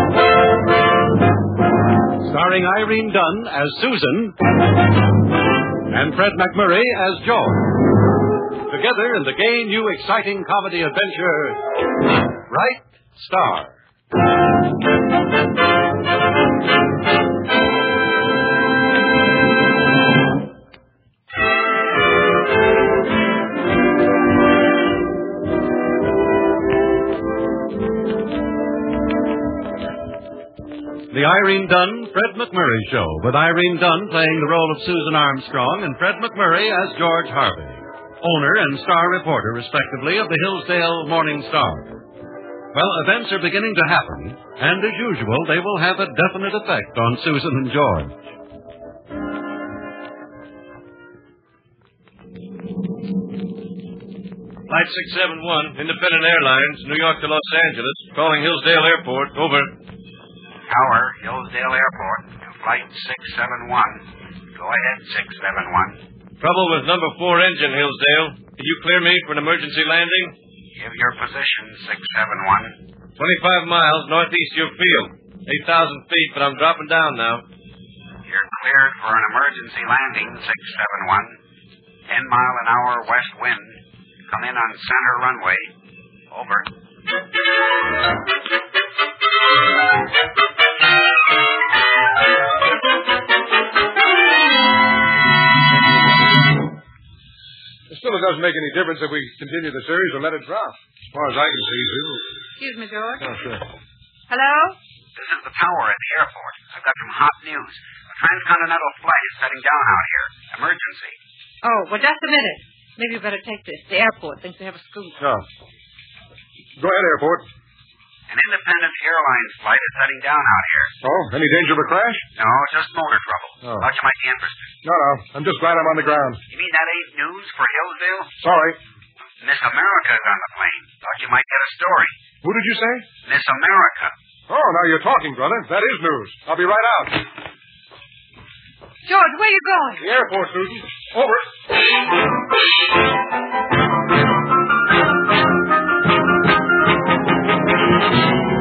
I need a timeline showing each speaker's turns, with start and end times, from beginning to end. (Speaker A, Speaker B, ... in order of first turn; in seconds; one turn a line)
Speaker A: 2.2-4.3
Speaker A: 5.9-7.6
Speaker A: 8.7-11.6
Speaker A: 12.5-13.8
Speaker A: 31.1-42.0
Speaker A: 42.7-48.1
Speaker B: 54.7-59.8
Speaker C: 60.7-66.0
Speaker B: 66.4-70.3
Speaker C: 70.7-72.7
Speaker B: 73.2-77.5
Speaker C: 78.2-81.4
Speaker C: 82.1-85.7
Speaker C: 86.3-86.7
Speaker D: 97.9-102.2
Speaker E: 102.6-103.2
Speaker D: 103.2-103.7
Speaker E: 104.3-104.8
Speaker C: 105.1-111.2
Speaker E: 111.6-115.2
Speaker D: 115.2-115.5
Speaker D: 116.8-117.5
Speaker C: 118.3-120.9
Speaker D: 121.0-122.2
Speaker C: 122.3-124.7
Speaker D: 123.6-123.9
Speaker D: 124.8-126.4
Speaker C: 126.5-128.3
Speaker D: 128.4-128.8
Speaker C: 129.4-132.2
Speaker D: 132.4-133.1
Speaker C: 133.2-134.1
Speaker D: 134.5-137.3
Speaker E: 139.0-140.1
Speaker D: 140.0-141.5